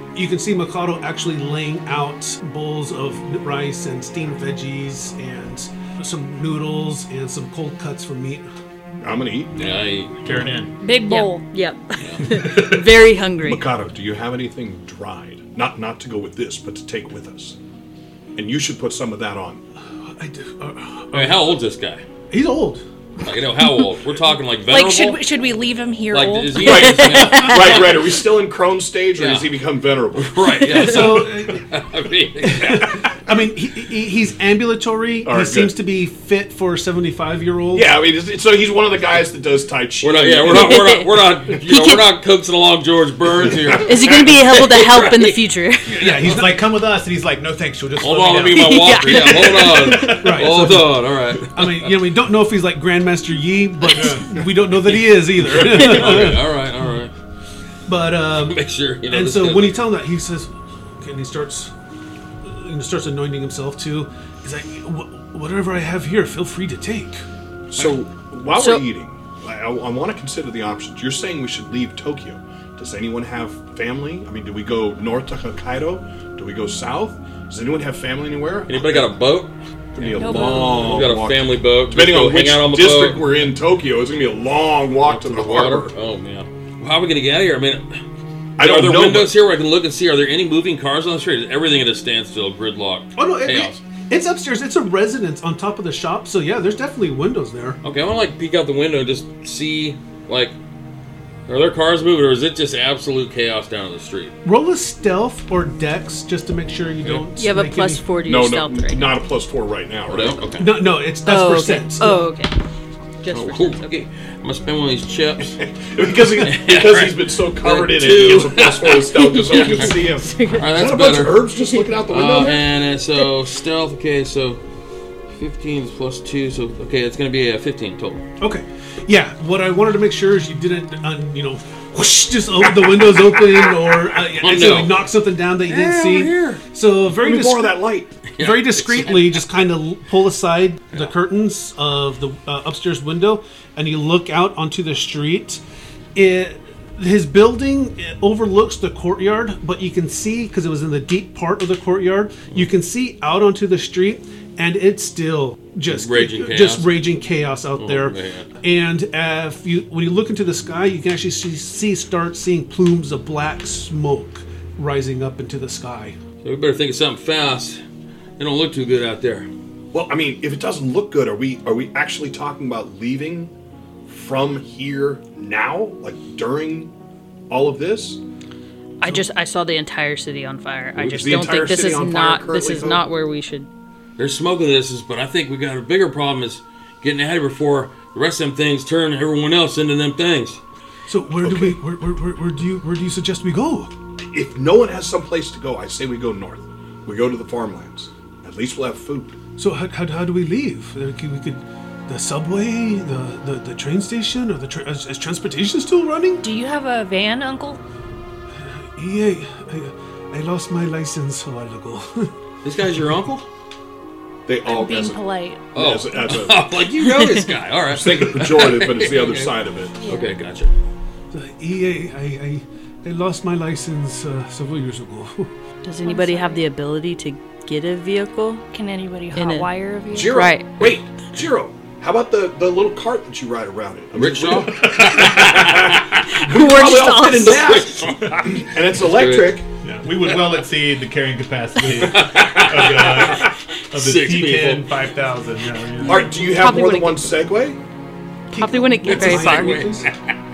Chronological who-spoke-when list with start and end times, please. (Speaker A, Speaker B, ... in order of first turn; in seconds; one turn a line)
Speaker A: 0.1-8.4
Speaker B: 9.0-9.5
Speaker C: 9.6-10.6
Speaker D: 10.2-10.7
Speaker E: 10.8-11.5
Speaker F: 11.1-13.7
Speaker C: 12.0-12.4
Speaker B: 13.4-17.6
Speaker B: 18.4-19.6
Speaker A: 20.1-21.4
Speaker C: 21.1-22.0
Speaker A: 22.3-22.8
Speaker C: 23.2-25.2
Speaker E: 24.7-27.2
Speaker C: 26.1-28.2
Speaker B: 26.6-30.4
Speaker F: 26.6-27.8
Speaker C: 29.2-29.5
Speaker C: 30.2-33.0
Speaker F: 30.7-31.2
Speaker A: 30.8-31.7
Speaker A: 32.4-37.9
Speaker B: 35.2-35.7
Speaker B: 37.7-41.0
Speaker C: 40.0-45.3
Speaker F: 40.5-41.0
Speaker F: 41.6-42.0
Speaker F: 43.8-46.3
Speaker A: 45.9-46.6
Speaker D: 46.2-50.2
Speaker C: 48.0-51.9
Speaker F: 48.5-50.2
Speaker A: 49.9-56.6
Speaker D: 54.0-54.3
Speaker C: 55.3-57.1
Speaker A: 57.9-61.7
Speaker C: 58.3-59.8
Speaker A: 62.4-67.2
Speaker B: 67.7-79.2
Speaker F: 68.5-68.9
Speaker C: 78.7-83.4
Speaker B: 80.0-85.9
Speaker E: 80.2-81.1
Speaker C: 85.0-88.0
Speaker B: 88.6-89.3
Speaker C: 88.6-93.8
Speaker A: 93.2-97.8
Speaker C: 97.8-100.5
Speaker C: 101.5-104.3
Speaker A: 104.4-108.0
Speaker F: 107.4-109.2
Speaker B: 108.3-110.4
Speaker C: 110.1-110.7
Speaker A: 110.6-112.3
Speaker F: 111.2-112.5
Speaker F: 113.2-113.9
Speaker C: 113.3-115.6
Speaker B: 115.8-122.7
Speaker C: 116.4-121.5
Speaker F: 119.2-120.8
Speaker C: 122.1-124.6
Speaker C: 125.3-128.2
Speaker A: 128.4-145.6
Speaker C: 134.3-135.1
Speaker C: 135.7-136.6
Speaker B: 137.1-138.1
Speaker C: 138.3-139.4
Speaker A: 146.2-166.2
Speaker C: 155.9-157.0
Speaker C: 157.8-158.5
Speaker C: 166.4-167.8
Speaker C: 168.4-169.5
Speaker B: 169.9-173.5
Speaker B: 174.1-176.9
Speaker B: 177.5-178.2
Speaker F: 179.0-183.7
Speaker C: 181.0-181.3
Speaker B: 181.1-183.1
Speaker C: 184.2-190.6
Speaker A: 191.1-193.9
Speaker B: 191.4-191.8
Speaker B: 194.3-199.4
Speaker A: 199.6-206.5
Speaker E: 206.4-207.8
Speaker A: 208.7-212.3
Speaker C: 212.6-213.5
Speaker B: 214.5-216.7
Speaker E: 214.7-215.6
Speaker C: 215.8-220.7
Speaker B: 217.9-220.0
Speaker E: 220.0-220.3
Speaker A: 221.3-225.5
Speaker F: 225.8-228.6
Speaker E: 226.0-226.7
Speaker E: 228.7-230.4
Speaker F: 229.3-230.8
Speaker B: 230.1-239.7
Speaker C: 234.2-236.4
Speaker D: 234.8-235.1
Speaker F: 236.3-237.8
Speaker E: 236.5-237.4
Speaker C: 237.4-239.6
Speaker D: 239.8-246.3
Speaker C: 241.8-245.0
Speaker B: 246.1-247.8
Speaker F: 246.1-247.3
Speaker A: 248.5-250.1
Speaker F: 248.5-249.9
Speaker C: 249.1-250.3